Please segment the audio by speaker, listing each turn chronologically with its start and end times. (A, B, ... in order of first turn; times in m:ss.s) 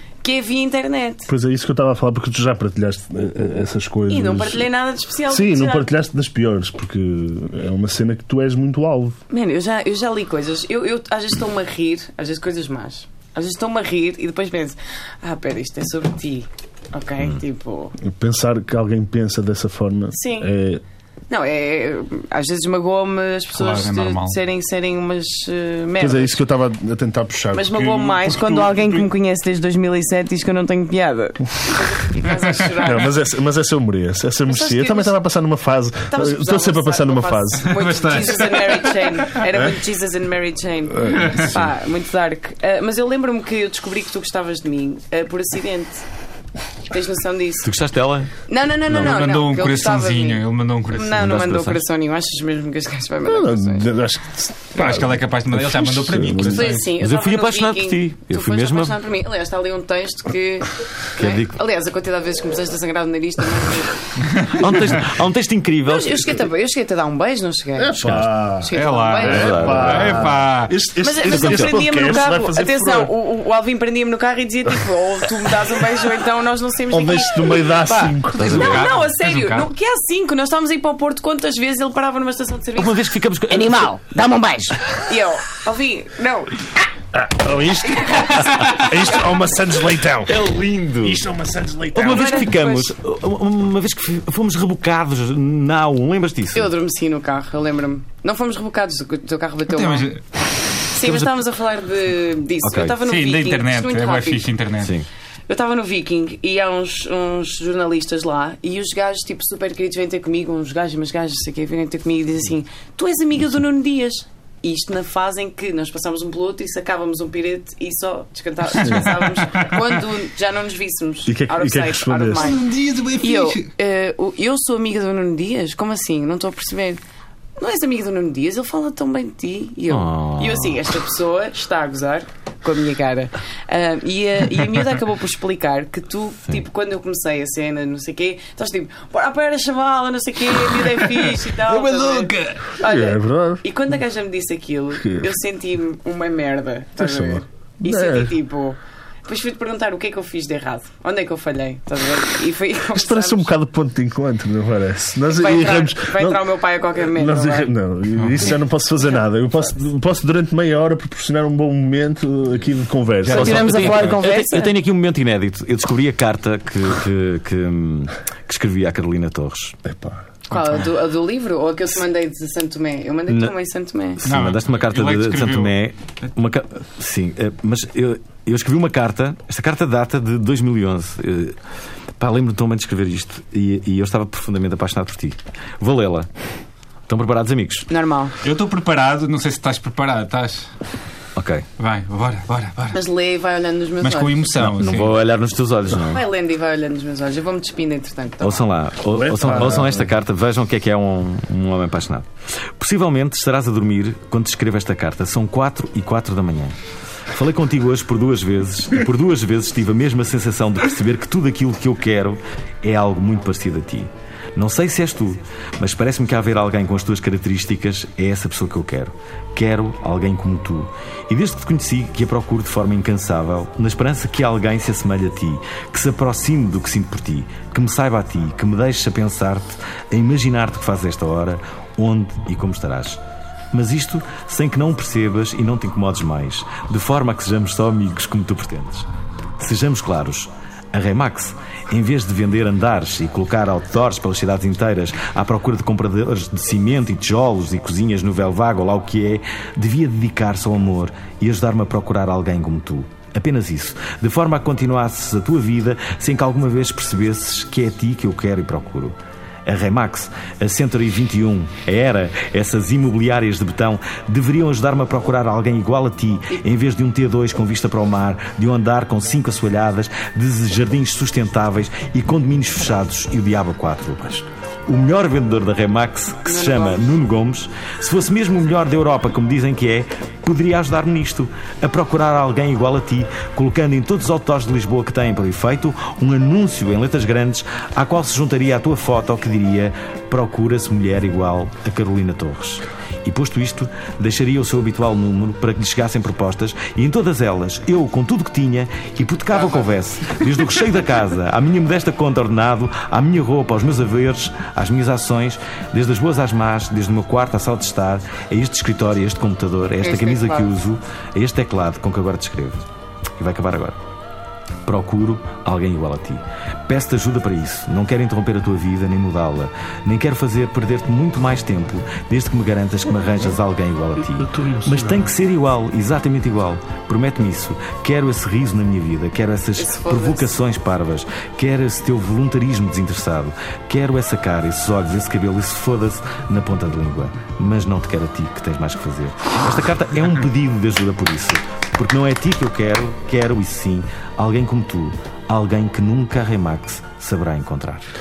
0:00.2-0:01.3 A
0:01.3-0:04.7 B
0:04.1-0:05.9 A
0:05.3-0:09.2 B
0:09.3-0:17.9 A
0:18.0-0:20.8 B
0:20.1-0:20.5 A
0:21.3-0:26.4 A
0:23.5-0:24.4 C
0:26.0-0:29.1 B
0:27.5-0:33.1 A
0:32.8-0:38.2 B
0:34.5-0:35.2 A
0:36.1-0:46.0 A
0:37.7-0:39.1 C
0:41.0-0:41.6 B
0:41.1-0:41.5 C
0:46.9-0:47.7 A
0:47.6-0:48.3 D
0:48.5-0:53.8 A
0:48.9-0:49.2 D
0:48.9-0:51.5 C
0:51.2-0:51.8 D
0:53.2-0:56.7 B
0:54.7-0:56.8 C
0:56.4-1:04.1 A
0:56.6-0:59.0 D
1:01.2-1:01.6 D
1:04.2-1:04.9 C
1:04.4-1:06.4 D
1:05.8-1:08.0 A
1:07.8-1:13.1 B
1:08.0-1:08.3 D
1:08.6-1:10.0 A
1:08.7-1:10.8 C
1:09.2-1:10.4 D
1:11.0-1:26.7 A
1:11.2-1:12.3 D
1:16.9-1:18.8 B
1:18.3-1:18.9 D
1:18.4-1:19.7 C
1:22.8-1:23.9 D
1:27.1-1:32.5 B
1:27.8-1:29.4 A
1:30.2-1:31.2 D
1:31.9-1:36.7 D
1:32.0-1:32.9 A
1:36.5-1:40.1 A
1:39.7-1:40.2 C
1:40.9-1:44.5 A
1:41.0-1:41.4 D
1:42.6-1:43.0 D
1:43.0-1:44.9 C
1:44.8-1:45.0 D
1:45.5-2:07.0 A
1:58.7-2:00.0 C
2:01.2-2:02.5 B
2:02.3-2:03.7 C
2:07.6-2:33.5 A
2:09.9-2:10.8 D
2:21.0-2:22.7 C
2:22.8-2:23.6 B
2:25.0-2:25.3 B
2:27.0-2:28.4 B
2:32.9-2:43.8 B
2:35.3-2:37.7 A
2:38.2-2:38.6 C
2:43.2-2:44.1 C
2:43.3-2:49.8 D
2:43.3-2:44.7 A
2:49.8-2:50.2 B
2:50.5-2:54.2 A
2:50.5-2:50.9 C
2:53.3-2:53.5 D
2:54.2-3:01.6 D
2:54.2-2:55.8 C
3:02.2-3:06.3 D
3:07.1-3:07.9 D
3:07.9-3:08.3 A
3:08.4-3:10.7 C
3:11.4-3:11.7 D
3:11.8-3:13.0 C
3:12.9-3:14.6 A
3:14.0-3:15.2 C
3:14.6-3:16.2 D
3:16.0-3:18.6 A
3:18.4-3:26.7 D
3:19.1-3:20.1 B
3:27.3-3:53.2 D
3:53.7-3:59.1 D
3:59.6-5:12.8 D
4:36.4-4:37.1 A
4:59.6-4:59.8 C
5:10.0-5:10.7 A
5:13.4-5:14.0 D
5:14.8-5:48.0 D
5:24.5-5:25.2 B
5:29.8-5:30.6 A